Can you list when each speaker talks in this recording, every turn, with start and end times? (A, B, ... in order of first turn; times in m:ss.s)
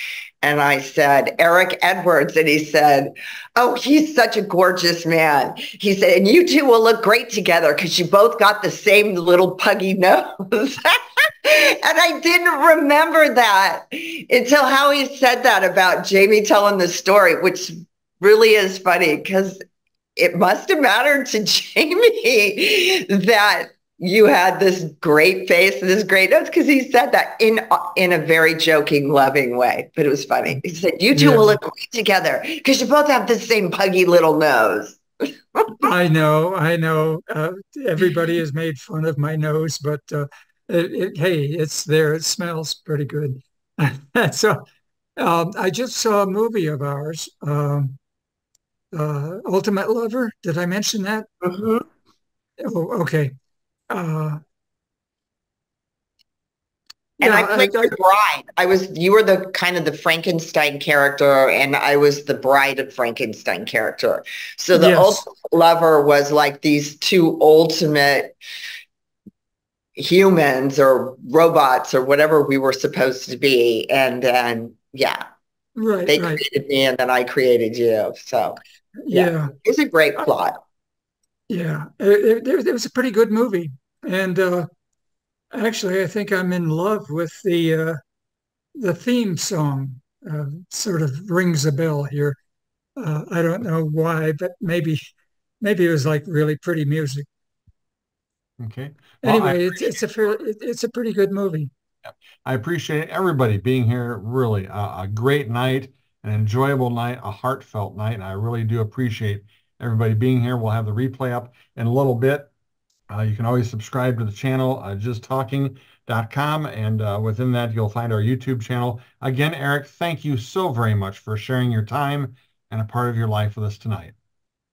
0:00.4-0:19.6 A
0:20.2-0:35.0 A
0:31.1-0:31.6 B
0:35.8-0:44.6 B
0:45.2-0:48.0 B
0:48.9-0:51.3 B
0:52.6-0:53.3 B
0:53.9-0:54.4 B
0:57.2-1:08.3 A
0:57.2-0:57.9 B
1:04.7-1:05.2 B
1:10.0-1:15.2 A
1:15.8-1:16.4 B
1:16.1-1:18.6 A
1:19.0-1:19.5 B
1:19.1-1:20.6 A
1:21.5-1:24.7 B
1:25.5-1:28.0 B
1:28.8-1:32.4 B
1:33.0-1:35.0 B
1:35.6-1:37.2 B
1:38.6-1:40.0 C
1:39.2-1:41.7 B
1:42.4-1:52.5 C
1:53.1-2:04.2 C